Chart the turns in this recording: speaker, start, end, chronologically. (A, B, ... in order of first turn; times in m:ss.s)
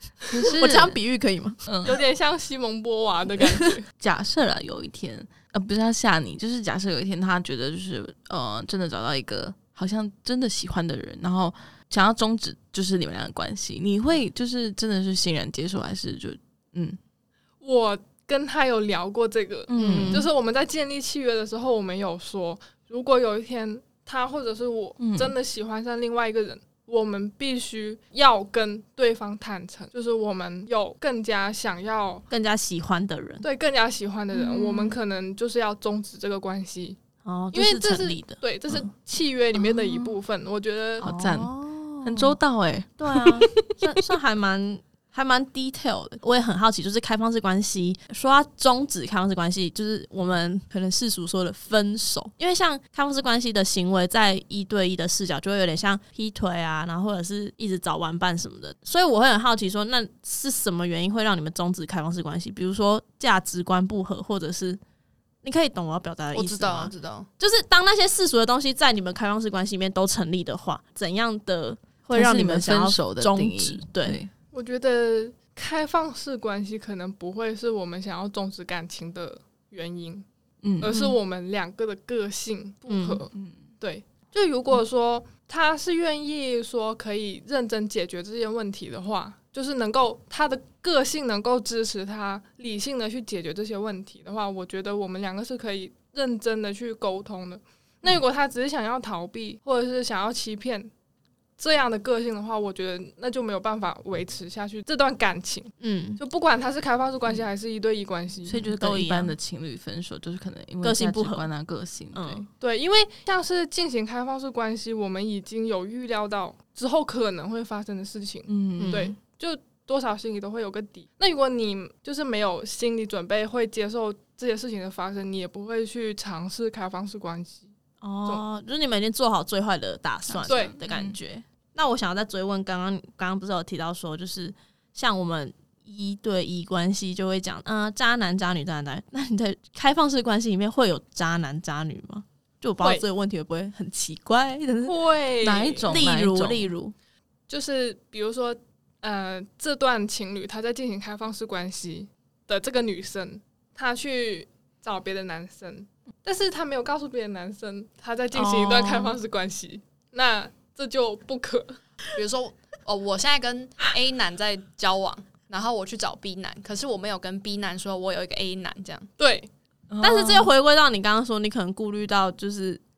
0:00.3-0:01.0 A
0:00.4-0:01.6 B
0:01.6-0:02.0 A
0:01.8-0:03.9 C
0:04.0-0:17.0 A
0:17.6-0:32.2 C
0:19.7-0:20.3 A
0:19.8-0:20.3 B
0:25.0-0:25.3 A
0:32.3-0:33.4 B
0:33.4-0:37.0 C
0:34.3-0:35.0 B
0:37.2-0:38.8 B
0:37.5-0:41.1 C
0:41.0-0:43.5 A
0:41.0-0:42.4 B
0:43.0-1:04.8 B
1:05.4-1:14.2 B
1:06.3-1:07.3 D
1:12.1-1:14.3 A
1:14.5-1:20.2 C
1:20.6-1:21.0 A
1:20.8-1:40.9 C
1:22.9-1:23.2 B
1:41.6-1:48.6 C
1:45.8-1:46.2 B
1:48.4-1:52.4 A
1:48.6-1:49.4 B
1:50.8-1:51.4 B
1:52.1-1:52.5 B
1:52.6-2:07.7 C
1:58.5-1:59.1 A
1:58.8-1:59.2 B
2:08.0-2:24.9 B
2:10.3-2:11.2 A
2:10.5-2:10.7 C
2:22.8-2:23.0 C
2:24.8-2:26.0 C
2:25.4-2:26.7 A
2:25.8-2:26.9 B
2:27.5-2:41.8 C
2:38.3-2:39.2 B
2:42.1-2:49.1 D
2:49.2-2:49.5 C
2:49.9-2:50.5 A
2:50.0-2:52.8 B